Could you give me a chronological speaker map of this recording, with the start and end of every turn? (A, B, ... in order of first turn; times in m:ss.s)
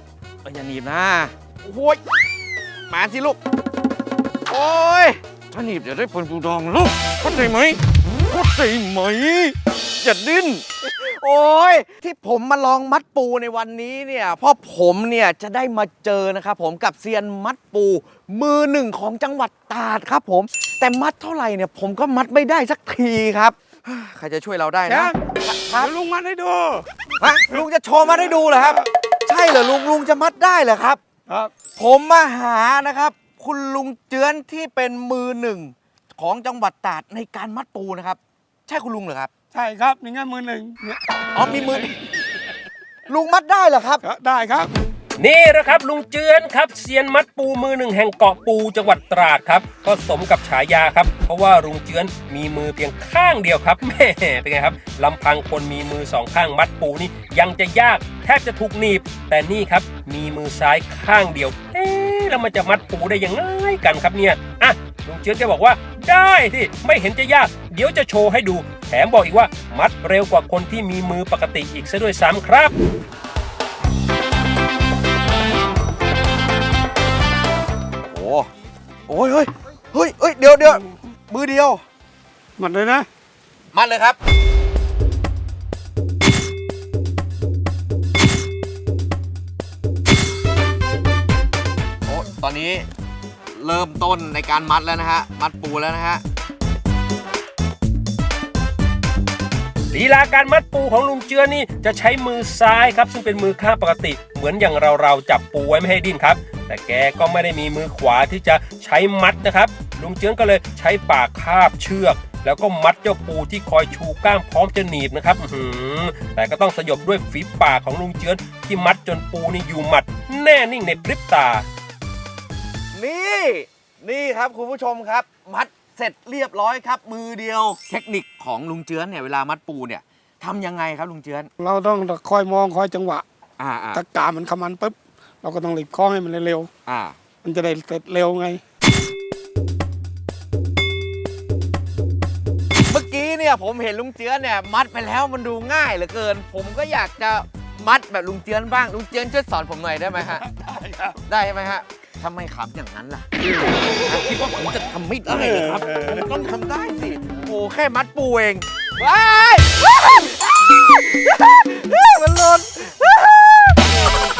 0:00.4-0:02.2 A
0:02.9-0:03.4 A
0:04.5-0:25.9 A
0:24.8-0:25.2 B
0:25.7-0:26.8 B
0:27.2-0:31.0 A
0:28.1-0:28.8 B
0:31.3-0:31.5 B
0:31.7-0:39.3 A
0:39.5-0:41.8 B
0:41.3-0:41.9 A
0:43.1-0:44.0 A
0:44.0-0:44.7 B
0:45.2-1:12.7 C
1:18.1-1:18.5 A
1:19.1-1:21.8 A
1:22.6-1:23.1 B
1:23.7-1:24.2 A
1:32.0-1:32.9 A
1:33.4-1:36.2 A
1:39.9-2:01.6 C
2:02.9-2:11.5 A
2:11.6-2:13.2 B
2:13.6-2:14.0 A
2:13.9-2:16.7 B
2:16.9-2:17.2 A
2:17.4-2:18.6 B
2:22.9-2:33.3 A
2:33.9-2:44.1 A
2:35.3-2:36.2 B